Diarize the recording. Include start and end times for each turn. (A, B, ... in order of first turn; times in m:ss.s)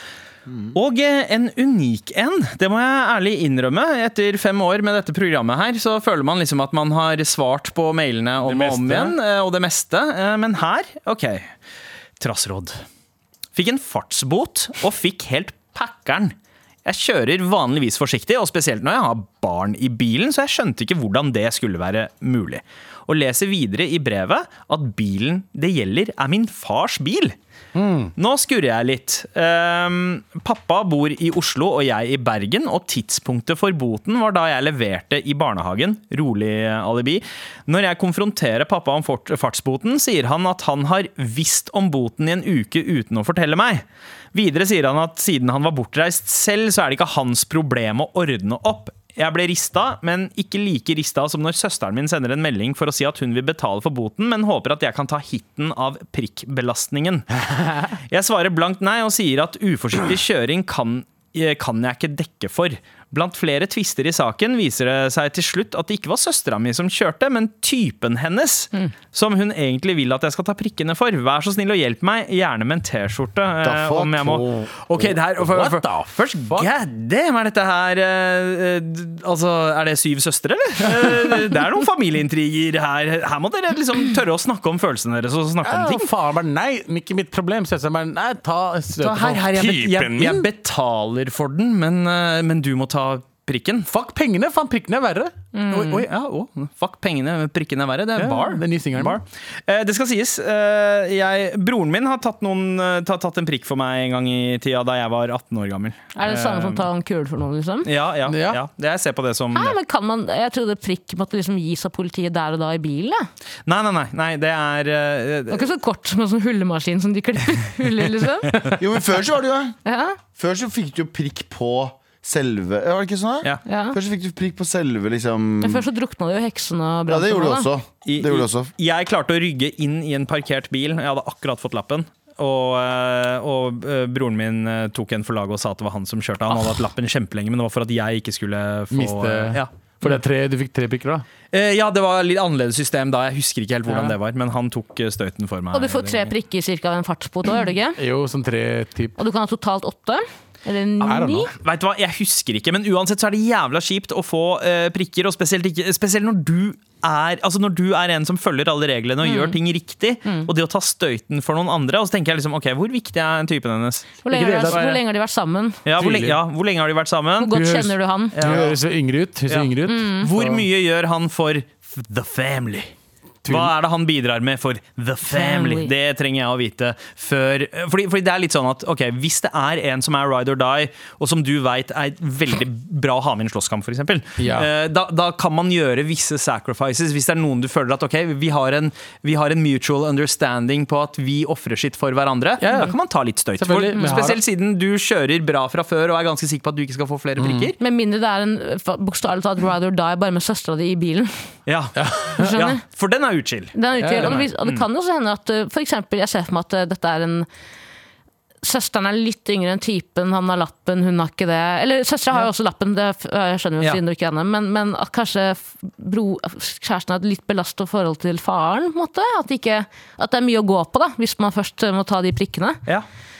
0:00.5-0:00.7 A
0:00.7-0:11.5 B
0:08.4-0:09.2 C
0:12.2-0:12.8 B
0:13.6-0:16.3 B
0:16.8-0:27.4 B
0:27.8-0:28.1 C
0:28.2-0:57.3 B
0:58.1-1:26.1 B
1:13.6-1:14.7 A
1:15.4-1:16.7 C
1:25.6-1:30.5 C
1:29.0-1:33.9 B
1:33.9-1:35.3 C
1:35.5-1:36.0 D
1:35.7-1:46.8 B
1:38.2-1:39.2 C
1:46.2-1:47.9 D
1:47.8-1:49.8 B
1:48.3-1:48.6 C
1:49.5-1:53.2 D
1:53.7-1:55.7 B
1:55.5-1:58.7 D
1:58.8-1:59.8 A
1:59.8-2:00.2 D
2:00.4-2:05.9 A
2:03.7-2:04.0 D
2:05.6-2:07.7 D
2:07.1-2:08.7 A
2:08.0-2:20.2 B
2:18.9-2:21.3 C
2:21.5-2:26.3 B
2:23.9-2:24.2 C
2:25.7-2:28.0 D
2:28.0-2:29.2 C
2:29.2-2:31.5 D
2:31.1-2:31.5 C
2:31.5-2:45.0 B
2:39.2-2:39.6 D
2:40.2-2:40.5 D
2:44.2-2:45.8 D
2:44.3-2:44.8 C
2:45.8-2:47.6 B
2:46.0-2:46.4 C
2:47.4-2:48.4 D
2:47.5-2:50.7 C
2:48.4-2:48.8 B
2:49.5-2:52.9 B
2:49.9-2:50.3 D
2:53.4-2:53.7 C
2:53.5-3:17.8 B
2:55.3-2:55.9 D
3:04.4-3:04.7 C
3:12.6-3:13.0 C
3:13.6-3:14.4 C
3:17.4-3:17.7 C
3:17.8-3:21.3 D
3:21.7-3:24.8 B
3:22.0-3:22.5 C
3:22.4-3:22.8 D
3:23.7-3:27.5 D
3:24.0-3:24.4 C
3:28.6-3:42.8 D